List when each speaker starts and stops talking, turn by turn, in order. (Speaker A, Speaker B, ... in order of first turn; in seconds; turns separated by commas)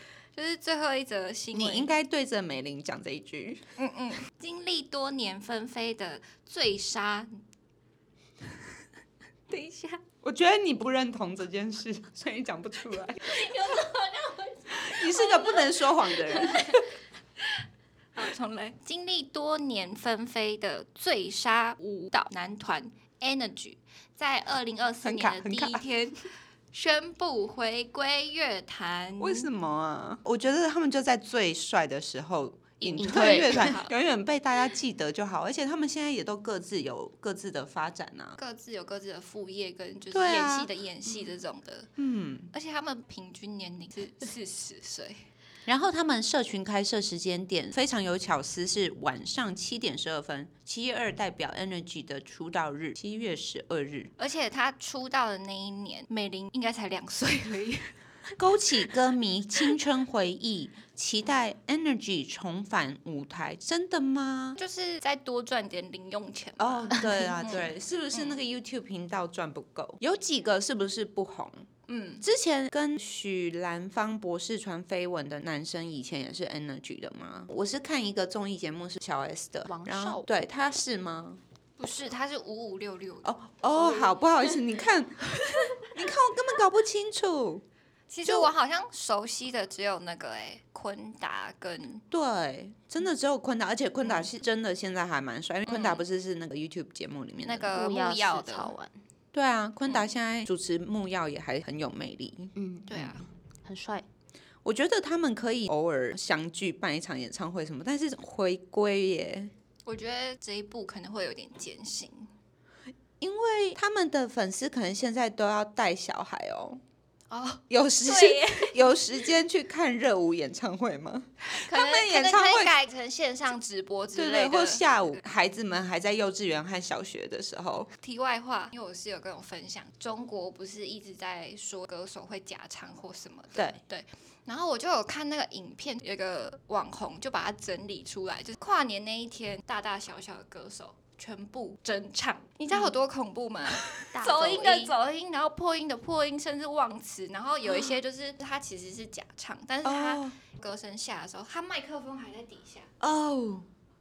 Speaker A: 0.3-1.9, Speaker B: 1.5-3.6, Speaker A: 3.8-7.4, Speaker A: 9.5-10.0, Speaker B: 10.2-13.3, Speaker A: 13.2-17.5, Speaker B: 14.8-16.8, Speaker A: 18.1-29.5, Speaker B: 25.0-25.9, Speaker B: 29.2-38.4, Speaker A: 32.8-33.9, Speaker C: 33.0-33.7, Speaker A: 38.4-41.9, Speaker B: 40.1-40.7, Speaker B: 42.0-42.5, Speaker A: 42.5-45.2, Speaker B: 45.7-54.1, Speaker A: 54.2-57.9, Speaker B: 58.4-64.6, Speaker A: 64.6-68.4, Speaker B: 66.6-71.7, Speaker A: 71.9-72.2, Speaker B: 72.2-81.4, Speaker C: 79.7-80.3, Speaker A: 81.8-84.5, Speaker B: 83.2-85.2, Speaker B: 85.9-87.7, Speaker A: 88.1-92.0, Speaker B: 88.2-88.5, Speaker B: 92.1-97.8, Speaker A: 94.0-94.3, Speaker A: 95.7-96.1, Speaker A: 97.4-98.7, Speaker C: 97.7-99.0, Speaker B: 99.3-102.5, Speaker C: 102.6-104.1, Speaker A: 102.9-103.2, Speaker B: 104.6-109.5, Speaker A: 109.9-112.3, Speaker B: 113.2-116.8, Speaker A: 117.3-119.2, Speaker B: 117.7-122.7, Speaker A: 121.5-125.2, Speaker B: 124.1-127.9, Speaker A: 128.0-152.9, Speaker C: 144.1-144.9, Speaker B: 149.8-150.4, Speaker B: 153.0-153.7